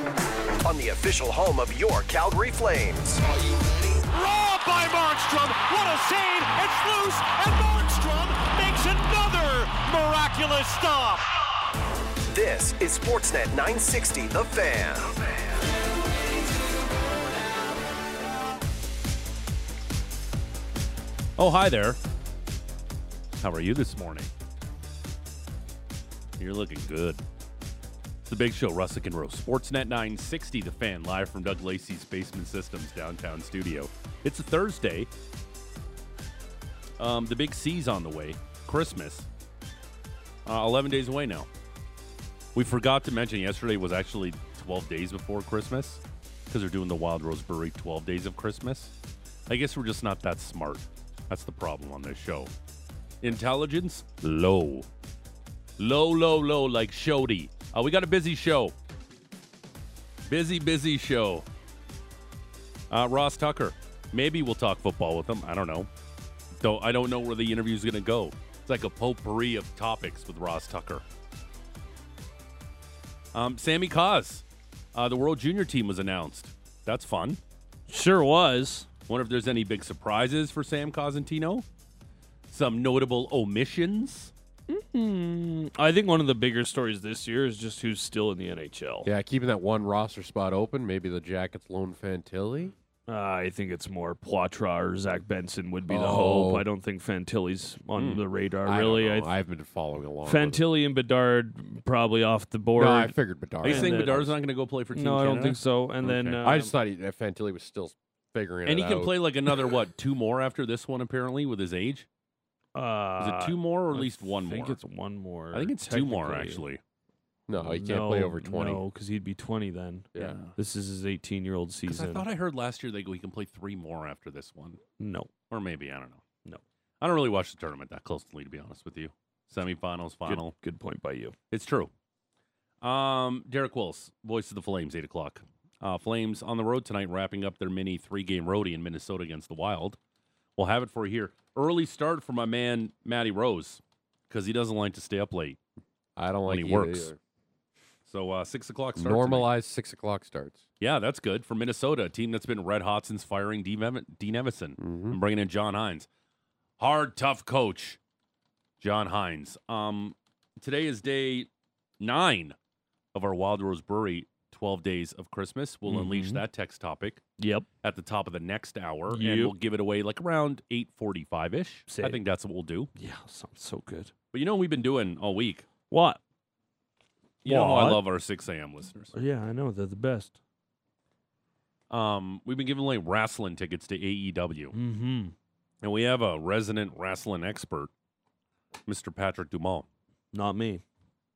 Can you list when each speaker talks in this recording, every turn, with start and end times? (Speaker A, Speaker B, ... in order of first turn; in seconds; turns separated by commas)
Speaker A: 0.6-3.2, Speaker B: 3.5-11.3, Speaker A: 12.3-15.2, Speaker C: 21.4-22.0, Speaker C: 23.4-24.3, Speaker C: 26.4-27.2, Speaker C: 28.2-35.1, Speaker C: 37.0-39.3, Speaker C: 40.5-41.5, Speaker C: 42.5-48.9, Speaker C: 49.5-52.5, Speaker C: 53.2-54.9, Speaker C: 55.8-58.7, Speaker C: 60.3-61.4, Speaker C: 62.9-65.9, Speaker C: 66.6-71.0, Speaker C: 73.3-77.4, Speaker D: 77.9-78.9, Speaker C: 79.1-81.6, Speaker C: 82.5-84.3, Speaker D: 84.7-89.1, Speaker E: 89.0-92.7, Speaker D: 93.1-99.3, Speaker E: 95.9-96.7, Speaker C: 98.0-98.2, Speaker E: 98.6-100.6, Speaker D: 100.2-103.1, Speaker E: 102.8-104.3, Speaker C: 103.6-106.4, Speaker D: 103.6-104.3, Speaker D: 104.9-106.7, Speaker E: 106.4-109.1, Speaker C: 108.7-112.0, Speaker D: 112.7-116.6, Speaker C: 113.2-114.8, Speaker C: 115.5-116.8, Speaker E: 117.5-118.8, Speaker D: 117.6-122.2, Speaker C: 120.2-120.5, Speaker C: 121.9-124.8, Speaker D: 125.0-125.3, Speaker C: 125.5-126.2, Speaker C: 127.0-130.5, Speaker D: 130.2-131.3, Speaker C: 131.5-131.9, Speaker C: 132.8-140.0, Speaker C: 140.6-145.6, Speaker E: 146.2-147.2, Speaker C: 146.4-147.1, Speaker C: 148.1-149.5, Speaker E: 148.9-150.6, Speaker C: 150.8-156.1, Speaker E: 154.8-155.2, Speaker C: 156.8-158.0, Speaker C: 158.8-161.5, Speaker C: 162.0-162.5, Speaker C: 163.1-167.2, Speaker D: 165.9-166.4, Speaker D: 167.4-167.7, Speaker C: 167.8-172.9, Speaker D: 169.1-169.5, Speaker D: 171.9-172.2, Speaker D: 172.9-174.1, Speaker C: 174.3-175.7, Speaker D: 175.9-176.2, Speaker C: 177.4-179.1, Speaker D: 177.4-178.0, Speaker D: 179.1-180.3, Speaker C: 181.9-184.7, Speaker D: 184.7-185.3, Speaker C: 185.8-187.9, Speaker C: 188.9-189.8, Speaker D: 190.3-190.8